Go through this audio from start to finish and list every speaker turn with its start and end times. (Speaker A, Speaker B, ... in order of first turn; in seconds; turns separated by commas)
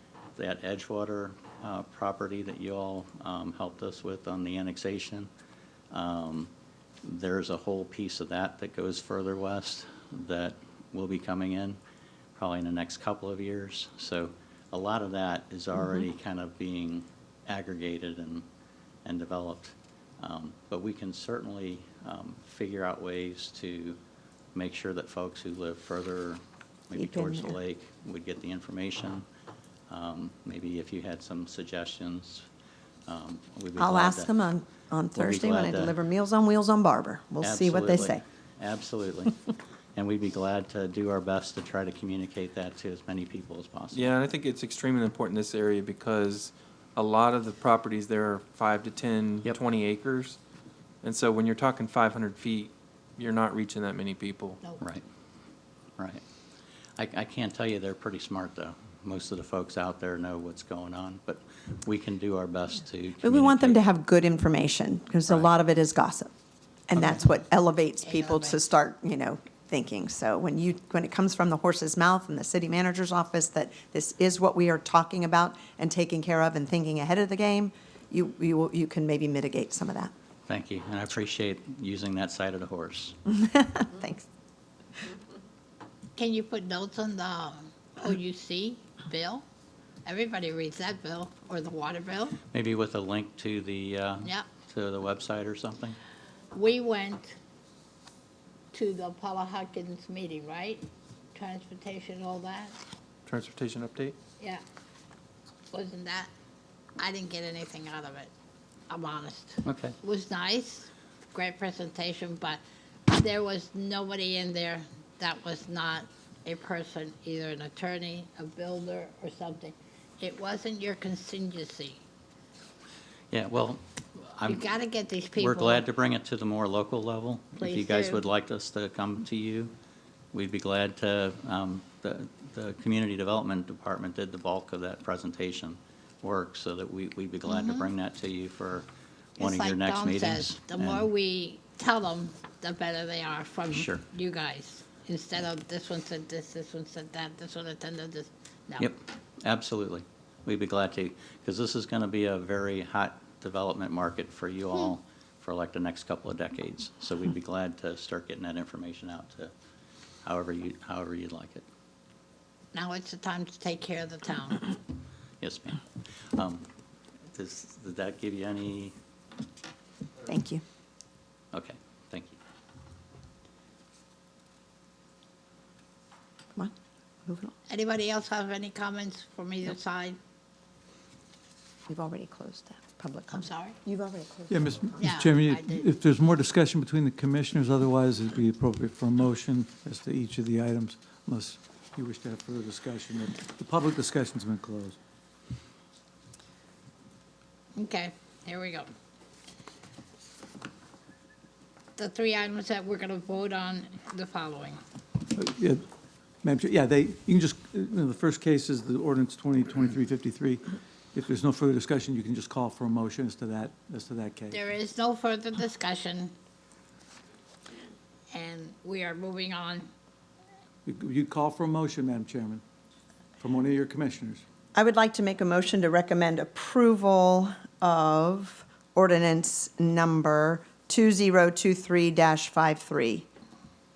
Speaker A: 0.3-5.3, Speaker A: 5.9-6.5, Speaker A: 7.0-11.8, Speaker A: 12.3-18.4, Speaker A: 19.0-24.0, Speaker A: 24.5-29.2, Speaker B: 26.9-27.6, Speaker A: 29.9-32.5, Speaker A: 33.1-34.3, Speaker B: 33.8-38.2, Speaker A: 35.1-35.9, Speaker A: 37.4-39.4, Speaker A: 40.0-44.1, Speaker C: 43.9-50.4, Speaker C: 51.0-54.6, Speaker A: 54.8-55.0, Speaker A: 56.0-56.2, Speaker A: 57.0-63.8, Speaker B: 63.2-66.3, Speaker B: 66.9-80.1, Speaker D: 68.0-68.6, Speaker A: 80.5-83.2, Speaker B: 83.3-84.2, Speaker D: 86.2-89.4, Speaker D: 90.0-92.4, Speaker A: 92.5-96.0, Speaker D: 96.5-97.3, Speaker D: 98.7-102.8, Speaker C: 103.3-104.2, Speaker D: 105.7-106.3, Speaker D: 107.0-108.3, Speaker D: 108.9-122.0, Speaker A: 109.6-110.0, Speaker A: 123.3-124.7, Speaker D: 124.5-125.8, Speaker A: 125.3-129.7, Speaker D: 127.6-128.2, Speaker A: 130.3-141.1, Speaker D: 137.5-137.9, Speaker D: 139.4-148.9, Speaker A: 143.7-144.0, Speaker A: 148.8-159.5, Speaker A: 160.2-161.7, Speaker D: 162.7-164.7, Speaker A: 165.4-166.7, Speaker A: 167.3-168.9, Speaker B: 170.2-170.6, Speaker A: 171.5-172.4, Speaker B: 177.2-177.5, Speaker D: 177.7-180.2, Speaker B: 181.9-185.1, Speaker D: 183.3-183.8, Speaker E: 184.5-195.0, Speaker D: 185.0-185.9, Speaker D: 197.8-198.9, Speaker D: 202.0-204.8, Speaker E: 205.3-205.8, Speaker E: 206.4-214.6, Speaker D: 214.5-216.3, Speaker D: 218.3-219.9, Speaker E: 220.8-222.6, Speaker E: 223.4-224.4, Speaker B: 224.7-233.2